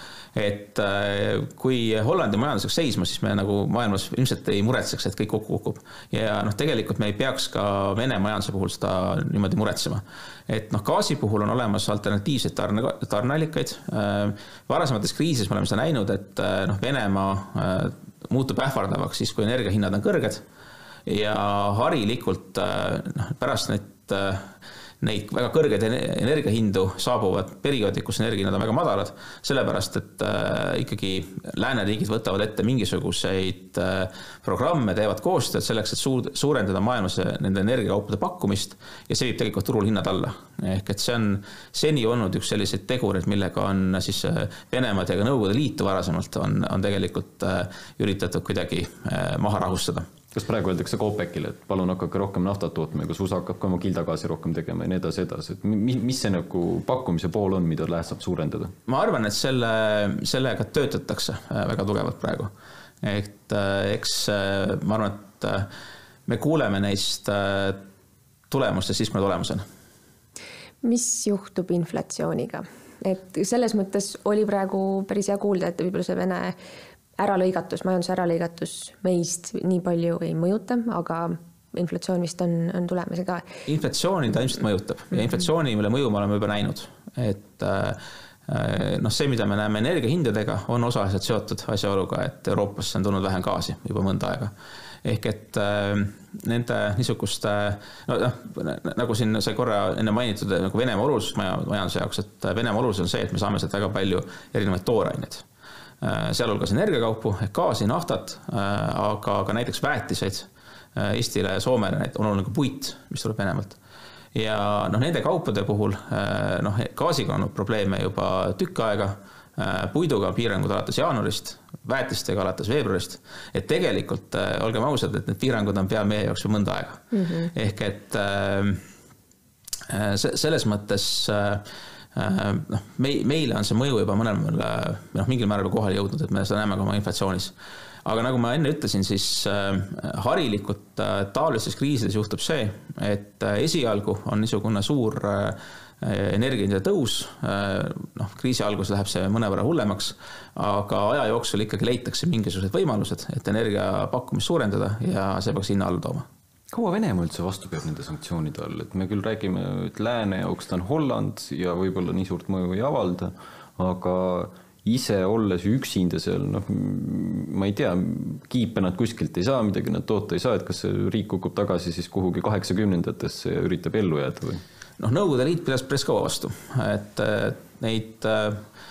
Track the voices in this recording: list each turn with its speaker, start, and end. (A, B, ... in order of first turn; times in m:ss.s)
0:00.4-0:20.4 A
0:21.1-0:50.1 A
0:50.3-0:58.7 B
0:58.9-1:02.5 A
1:03.0-1:05.7 A
1:06.3-1:07.8 A
1:08.5-1:09.6 A
1:10.8-1:16.6 C
1:17.2-1:23.4 C
1:23.7-1:34.5 A
1:35.0-1:45.4 A
1:46.0-1:53.8 A
1:54.3-2:08.8 A
2:07.1-2:07.5 C
2:09.9-2:17.6 A
2:18.1-2:36.3 A
2:36.7-2:54.6 B
2:55.0-2:58.6 A